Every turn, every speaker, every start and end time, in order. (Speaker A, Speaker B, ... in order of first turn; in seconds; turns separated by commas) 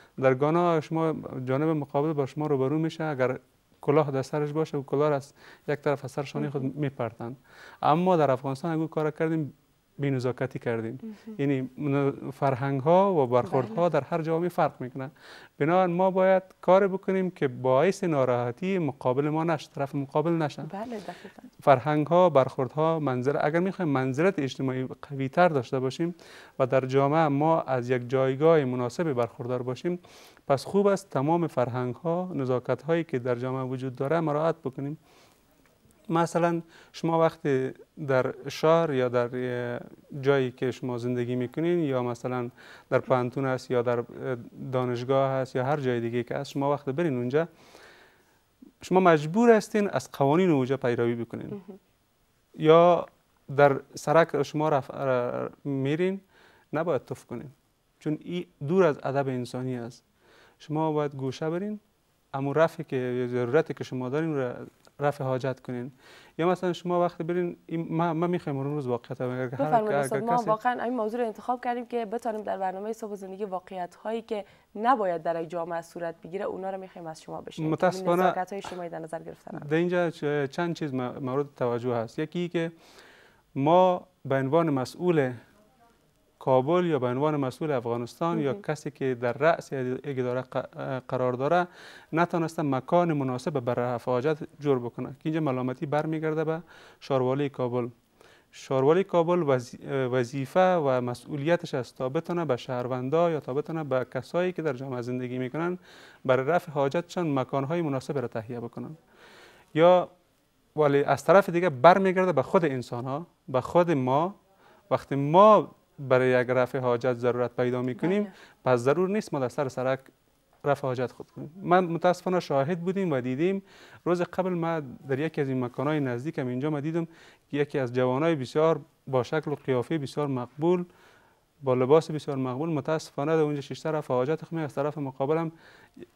Speaker A: 0.2-20.7, Speaker B: 6.4-6.7, Speaker B: 13.4-13.8, Speaker B: 20.6-21.5, Speaker A: 21.6-35.0, Speaker A: 36.1-47.5, Speaker A: 48.8-51.6, Speaker A: 52.6-56.2, Speaker A: 56.7-60.0, Speaker A: 60.6-61.8, Speaker A: 62.3-70.5, Speaker B: 69.6-79.7, Speaker A: 77.6-78.4, Speaker A: 79.5-82.7, Speaker A: 83.6-85.3, Speaker A: 86.4-97.9, Speaker B: 88.3-88.6, Speaker A: 98.5-109.0, Speaker A: 109.8-110.1, Speaker A: 110.8-114.3, Speaker A: 114.9-120.0, Speaker B: 118.0-118.3, Speaker A: 120.7-130.8, Speaker A: 131.6-135.5